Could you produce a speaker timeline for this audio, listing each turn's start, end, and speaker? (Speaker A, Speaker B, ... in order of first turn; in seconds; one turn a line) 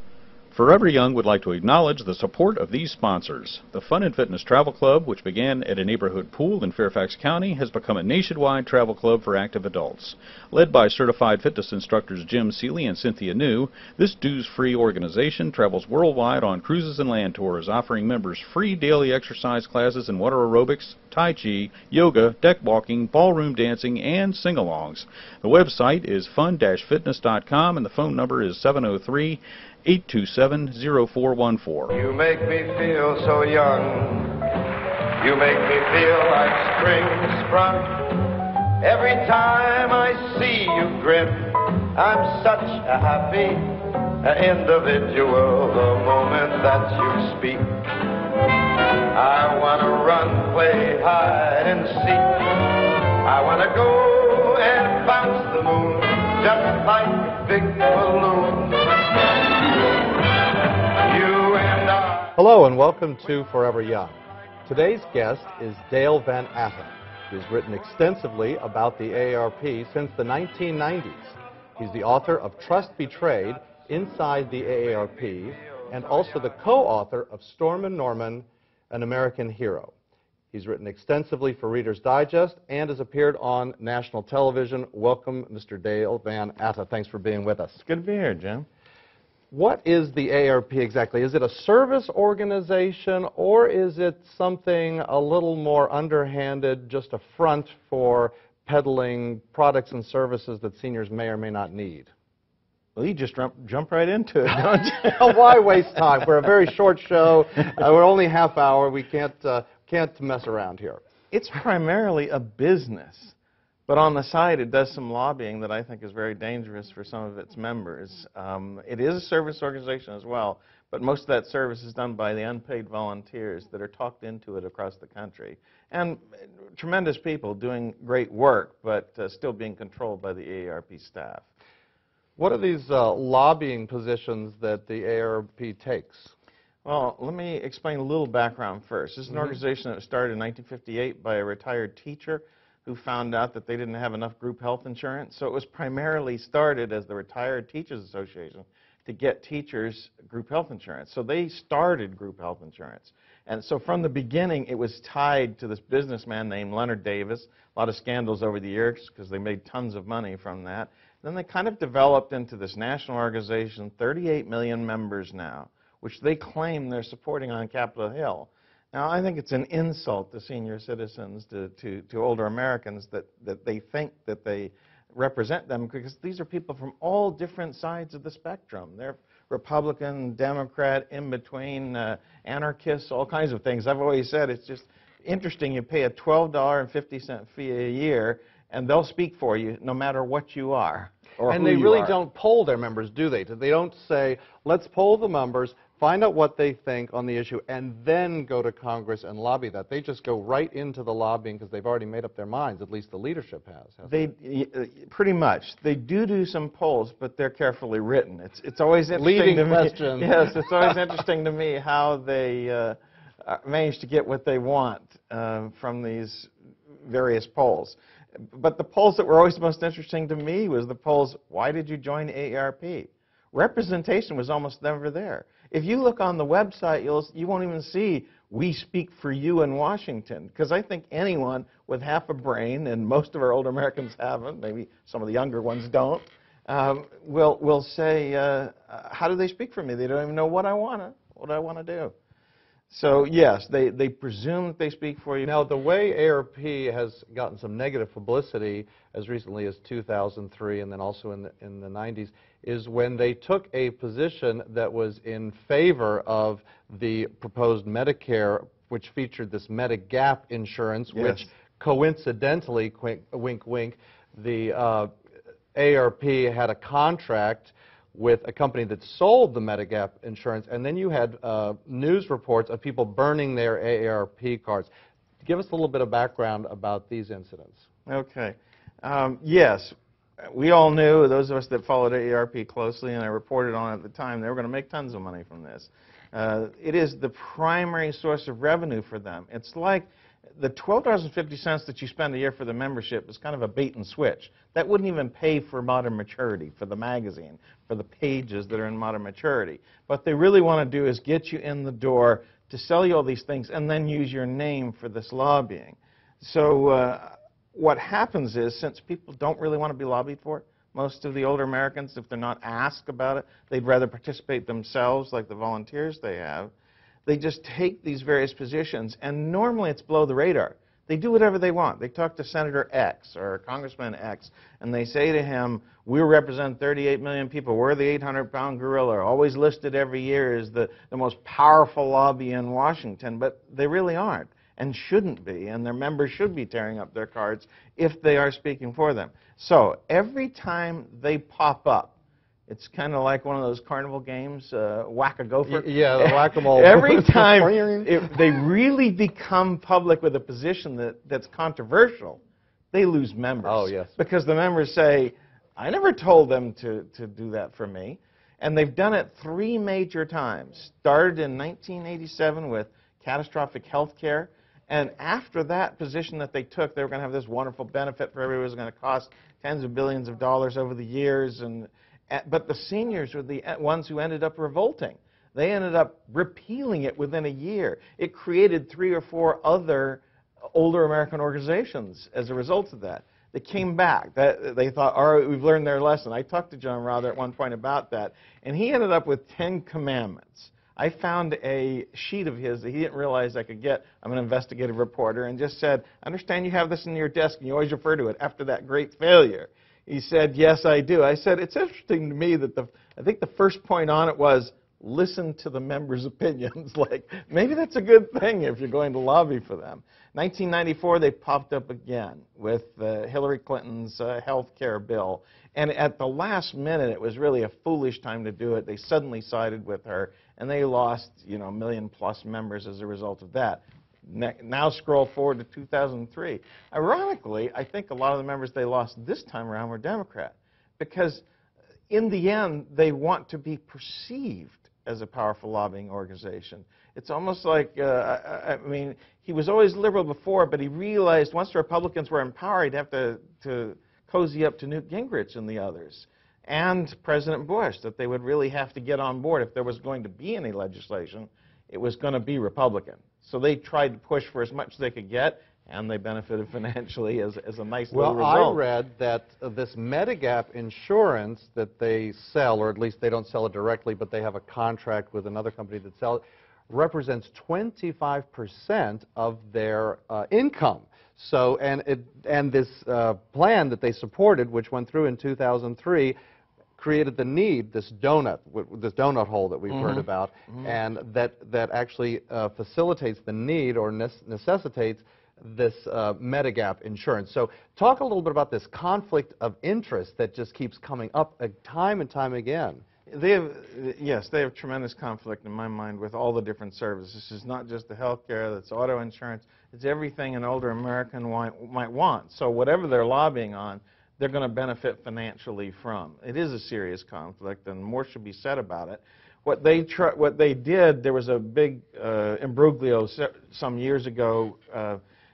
Speaker A: 0.5-31.9
Speaker B: 31.9-34.4
Speaker B: 35.2-47.9
Speaker B: 49.1-59.5
Speaker B: 60.9-62.3
Speaker C: 62.4-79.9
Speaker C: 80.5-87.8
Speaker D: 87.8-88.7
Speaker C: 89.5-102.1
Speaker D: 103.0-105.8
Speaker C: 105.1-111.0
Speaker D: 111.3-113.3
Speaker D: 113.9-131.4
Speaker C: 132.4-136.3
Speaker D: 136.8-192.2
Speaker C: 191.5-204.2
Speaker D: 204.1-216.5
Speaker C: 209.1-210.9
Speaker D: 217.0-242.1
Speaker D: 242.9-245.5
Speaker C: 245.4-265.1
Speaker D: 261.1-261.5
Speaker C: 265.7-274.9
Speaker C: 275.4-277.8
Speaker D: 278.1-316.7
Speaker D: 317.2-342.1
Speaker D: 342.7-352.4
Speaker C: 345.6-348.4
Speaker D: 352.9-431.4
Speaker C: 353.6-354.1
Speaker D: 432.1-458.8
Speaker C: 458.1-476.4
Speaker C: 477.0-493.0
Speaker D: 479.9-480.9
Speaker D: 493.3-515.2